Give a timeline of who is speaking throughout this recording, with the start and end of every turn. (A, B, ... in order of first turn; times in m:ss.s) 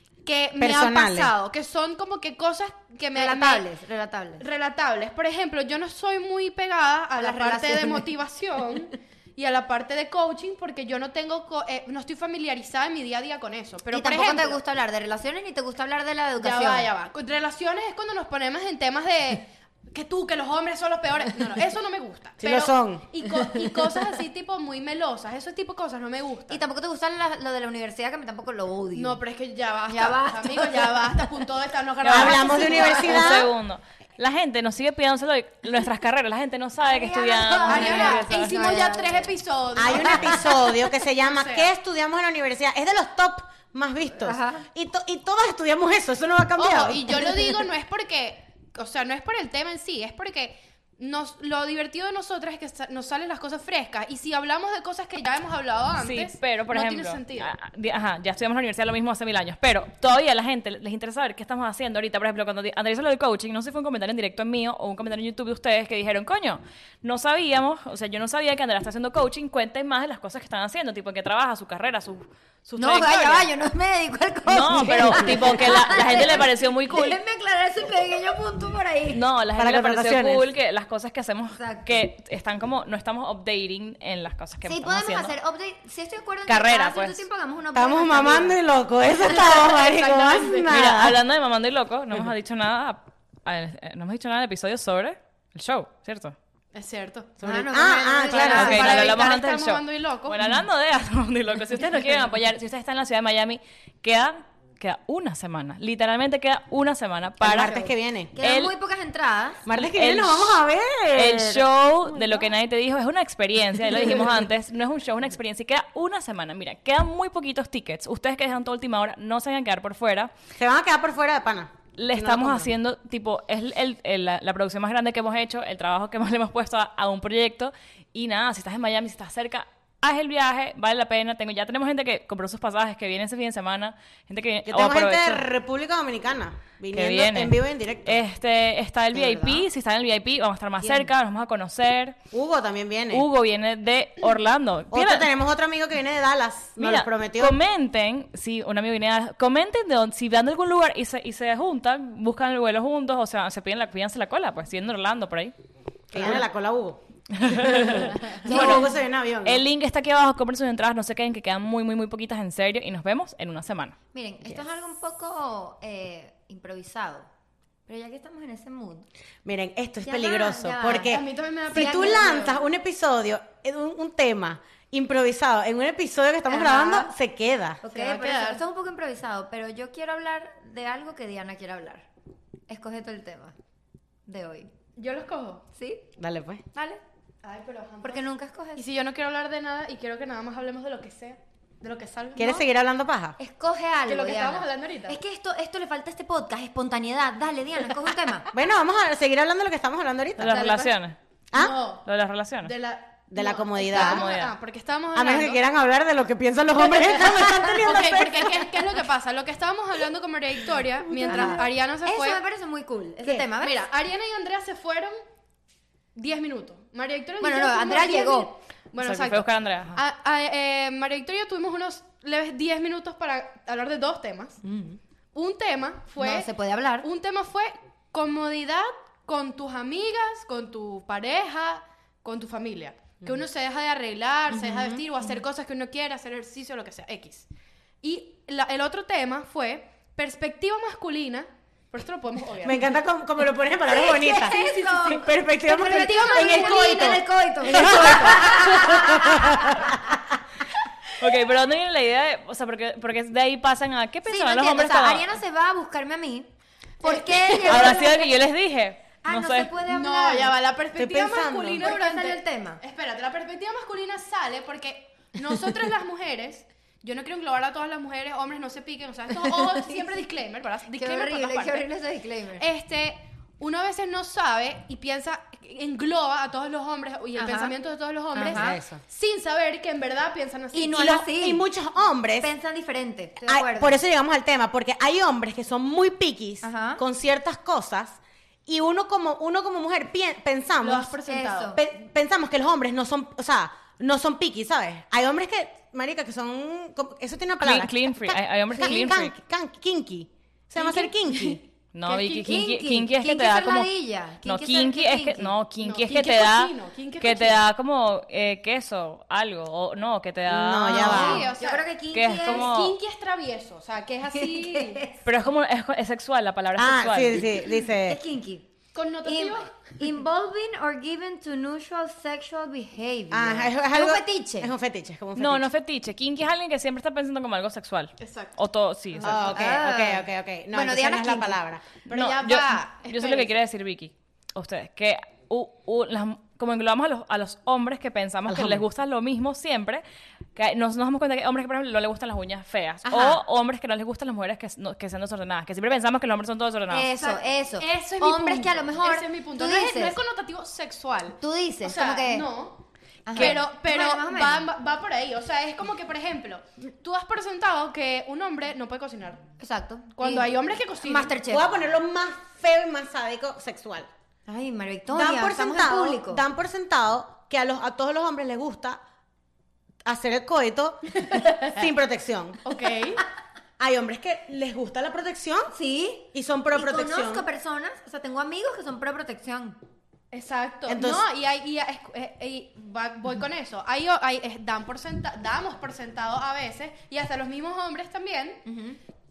0:00.2-0:03.6 A
0:00.6-0:01.3 B
0:03.2-0:04.4 C
0:04.4-0:14.6 A
0:07.2-0:08.1 C
0:13.9-0:16.9 C
0:16.4-0:26.6 A
0:22.4-0:23.1 B
0:26.5-0:29.2 C
0:29.0-0:33.4 A
0:29.9-0:31.3 C
0:32.0-0:38.7 D
0:32.1-0:33.5 B
0:36.8-0:39.3 C
0:37.1-0:41.7 A
0:39.8-0:47.3 B
0:39.9-0:40.3 C
0:44.2-0:44.6 C
0:46.6-0:57.5 A
0:56.0-1:13.5 D
1:12.8-1:19.2 C
1:14.5-1:17.2 D
1:19.1-1:25.3 D
1:19.6-1:20.5 B
1:21.5-1:21.9 C
1:24.6-1:28.6 C
1:26.5-1:27.2 D
1:27.8-1:31.2 B
1:29.2-1:30.7 A
1:30.7-1:36.4 D
1:36.7-1:37.3 A
1:37.4-1:39.0 B
1:37.4-1:39.4 C
1:38.3-1:47.7 D
1:38.4-1:40.5 A
1:47.4-1:48.3 B
1:47.5-1:49.6 C
1:48.4-1:48.7 D
1:49.7-1:51.7 B
1:49.8-1:50.6 D
1:51.1-2:00.3 D
2:00.6-2:02.7 B
2:02.0-2:15.5 D
2:14.7-2:18.2 B
2:16.9-2:22.2 D
2:19.1-2:19.7 C
2:20.8-2:21.1 C
2:22.3-2:23.3 B
2:23.1-2:25.3 D
2:24.9-2:27.6 B
2:26.8-2:35.5 D
2:36.1-2:39.6 B
2:37.4-2:44.6 D
2:38.4-2:39.0 C
2:44.1-2:47.3 C
2:47.9-2:49.1 C
2:49.4-2:57.8 B
2:50.0-2:51.2 C
2:51.0-2:52.7 A
2:51.7-2:52.4 C
2:56.5-2:57.1 C
2:57.8-3:02.1 C
2:57.9-2:58.6 A
3:02.7-3:03.6 C
3:04.3-3:04.7 C
3:05.0-3:05.6 A
3:05.7-3:06.1 C
3:06.2-3:06.6 B
3:06.7-3:07.0 C
3:07.4-3:12.6 A
3:08.0-3:08.8 C
3:12.4-3:13.4 B
3:13.4-3:18.5 C
3:14.0-3:15.2 A
3:18.5-3:20.7 B
3:20.4-3:21.2 D
3:20.5-3:20.9 C
3:21.5-3:21.8 B
3:21.6-3:22.0 A
3:22.0-3:22.7 D
3:22.6-3:25.6 A
3:23.3-3:24.2 B
3:23.9-3:24.5 D
3:25.1-3:28.9 B
3:26.8-3:32.4 A
3:31.0-3:31.7 B
3:31.2-3:33.9 C
3:33.3-3:35.2 A
3:36.2-3:44.6 A
3:37.4-3:38.5 C
3:39.0-3:40.0 D
3:44.6-3:45.0 C
3:45.3-3:46.5 A
3:46.2-3:47.1 C
3:47.0-3:57.5 A
3:54.5-3:55.3 C
3:58.0-4:02.9 A
4:02.6-4:10.2 B
4:03.9-4:10.0 C
4:04.5-4:05.2 A
4:05.7-4:08.4 A
4:11.2-4:15.4 D
4:14.3-4:16.5 C
4:17.0-4:18.4 C
4:17.0-4:18.0 A
4:17.6-4:19.8 D
4:19.2-4:20.6 C
4:19.8-4:31.9 A
4:20.9-4:21.9 B
4:21.8-4:22.8 C
4:29.4-4:30.2 C
4:30.9-4:32.7 C
4:32.6-4:41.1 A
4:37.4-4:37.8 C
4:38.3-4:38.8 C
4:38.5-4:39.0 B
4:40.7-4:41.6 C
4:40.9-4:42.5 B
4:42.4-4:44.0 C
4:43.4-4:51.2 B
4:46.6-4:47.0 C
4:50.8-4:51.8 A
4:51.3-4:51.8 C
4:51.7-5:01.6 B
4:57.6-4:59.3 D
4:58.7-4:59.1 C
5:00.8-5:05.6 C
5:01.9-5:03.9 D
5:04.4-5:11.3 D
5:05.8-5:07.6 A
5:10.5-5:11.5 B
5:10.9-5:12.7 C
5:10.9-5:11.9 A
5:12.1-5:13.0 D
5:12.4-5:15.0 A
5:14.3-5:15.2 C
5:15.2-5:17.5 D
5:16.8-5:18.2 B
5:17.9-5:18.7 C
5:18.9-5:19.8 A
5:19.2-5:24.7 C
5:23.3-5:25.7 B
5:25.4-5:29.7 D
5:28.2-5:28.6 A
5:29.2-5:32.0 B
5:29.5-5:32.9 C
5:32.1-5:33.6 A
5:32.2-5:40.0 D
5:38.5-5:38.8 B
5:40.6-5:47.1 D
5:43.0-5:43.4 C
5:46.9-5:50.2 C
5:47.2-5:52.8 A
5:51.4-5:52.5 C
5:53.3-5:54.7 C
5:53.3-5:59.4 A
5:59.6-6:01.7 C
6:00.2-6:01.4 A
6:01.5-6:04.1 B
6:04.5-6:06.4 C
6:05.1-6:09.0 B
6:10.0-6:12.6 B
6:11.3-6:11.6 A
6:12.6-6:13.2 A
6:13.8-6:15.7 B
6:15.7-6:19.8 C
6:16.3-6:17.5 B
6:20.3-6:28.6 A
6:20.9-6:21.3 B
6:28.7-6:29.0 C